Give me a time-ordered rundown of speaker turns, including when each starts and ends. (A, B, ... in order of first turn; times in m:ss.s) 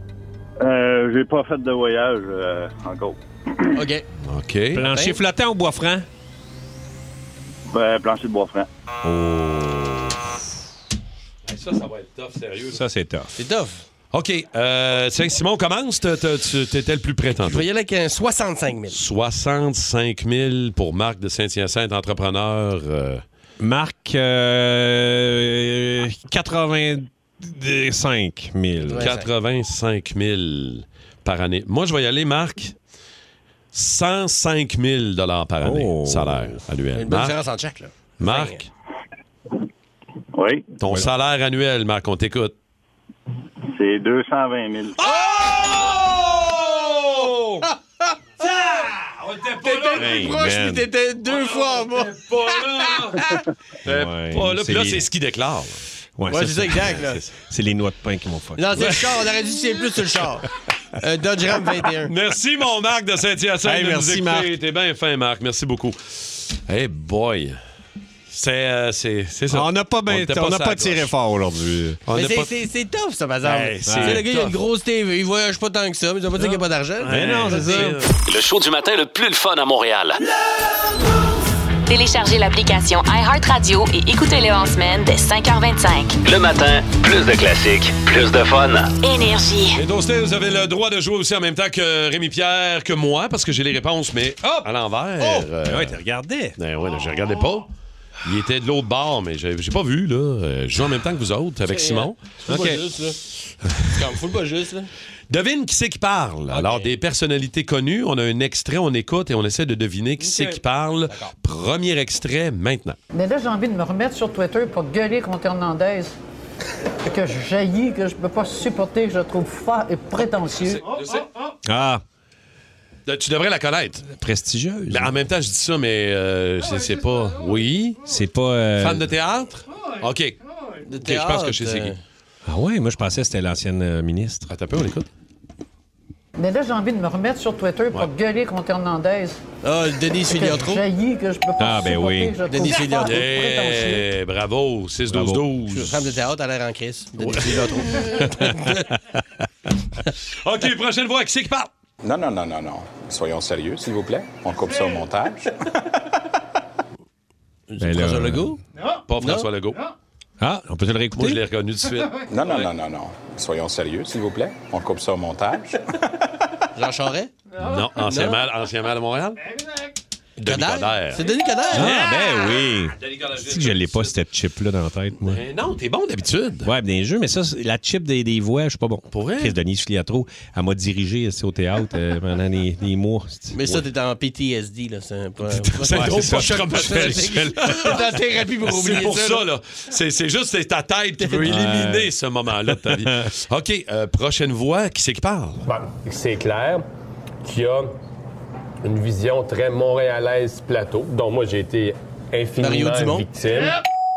0:00.6-0:03.7 A
0:03.8-0:04.0 B
0:04.2-0:04.9 C
0:04.7-0:06.0 D
0:04.9-0:05.2 B
0:07.7-0:08.7 A
0:09.0-0:10.3 D
0:11.4-0:12.8 C
0:12.7-0:13.3 D
0:13.4-0:13.8 B
0:14.1-0:17.6 C
0:17.4-0:19.0 B
0:18.9-0:23.2 C
0:23.6-0:29.1 D
0:28.8-0:29.3 B
0:29.0-0:32.7 C
0:33.7-0:37.4 C
0:35.6-0:36.5 D
0:36.9-0:38.6 B
0:38.2-0:38.7 C
0:40.3-0:40.7 A
0:40.8-0:42.5 C
0:43.7-0:45.0 A
0:45.0-0:47.4 C
0:48.4-0:50.2 C
0:49.6-0:53.4 B
0:50.0-0:50.8 D
0:51.2-0:53.3 C
0:53.8-0:55.0 D
0:53.8-0:55.8 C
0:56.2-0:59.1 D
0:56.3-0:57.2 B
0:58.6-1:00.4 B
1:01.0-1:02.1 B
1:02.0-1:07.6 C
1:03.6-1:04.5 D
1:08.3-1:11.1 C
1:09.5-1:12.0 D
1:12.0-1:12.5 C
1:12.1-1:17.6 B
1:13.4-1:14.6 C
1:13.8-1:14.2 D
1:16.4-1:18.1 C
1:17.1-1:18.1 D
1:18.3-1:20.2 E
1:21.9-1:26.2 F
1:26.2-1:28.9 E
1:29.0-1:29.8 F
1:29.8-1:36.0 C
1:35.6-1:36.6 D
1:36.6-1:37.7 C
1:38.2-1:42.2 C
1:41.6-1:43.2 B
1:42.5-1:42.8 D
1:43.9-1:44.9 B
1:45.3-1:53.0 C
1:46.5-1:46.9 B
1:50.2-1:50.6 B
1:53.1-1:56.1 G
1:57.0-2:00.8 G
2:00.6-2:01.3 C
2:01.6-2:02.0 D
2:03.0-2:04.1 C
2:04.1-2:05.1 D
2:04.9-2:08.1 C
2:08.0-2:09.1 D
2:08.8-2:10.4 C
2:10.8-2:12.0 B
2:11.0-2:11.9 C
2:12.4-2:14.5 D
2:14.5-2:15.1 C
2:16.4-2:19.4 G
2:19.6-2:20.8 B
2:20.2-2:24.1 G
2:21.6-2:22.4 D
2:22.4-2:23.2 B
2:23.0-2:26.0 C
2:25.1-2:25.4 D
2:25.7-2:28.9 B
2:30.4-2:31.7 C
2:32.0-2:35.5 H
2:37.7-2:38.6 B
2:37.8-2:38.5 D
2:39.1-2:39.8 C
2:39.2-2:39.5 B
2:40.4-2:41.4 D
2:41.1-2:42.7 C
2:42.3-2:45.8 H
2:46.7-2:47.3 B
2:47.6-2:49.4 C
2:48.0-2:48.4 B
2:50.4-2:54.2 C
2:50.4-2:52.0 B
2:51.7-2:55.4 D
2:55.2-2:56.7 C
2:56.6-3:03.7 D
2:59.1-2:59.6 C
3:03.5-3:09.4 B
3:05.8-3:07.9 C
3:05.8-3:07.7 D
3:08.6-3:15.6 C
3:11.2-3:11.7 B
3:11.4-3:12.1 D
3:12.6-3:13.2 D
3:15.6-3:16.8 I
3:17.4-3:17.9 I
3:18.8-3:23.8 I
3:22.6-3:23.2 B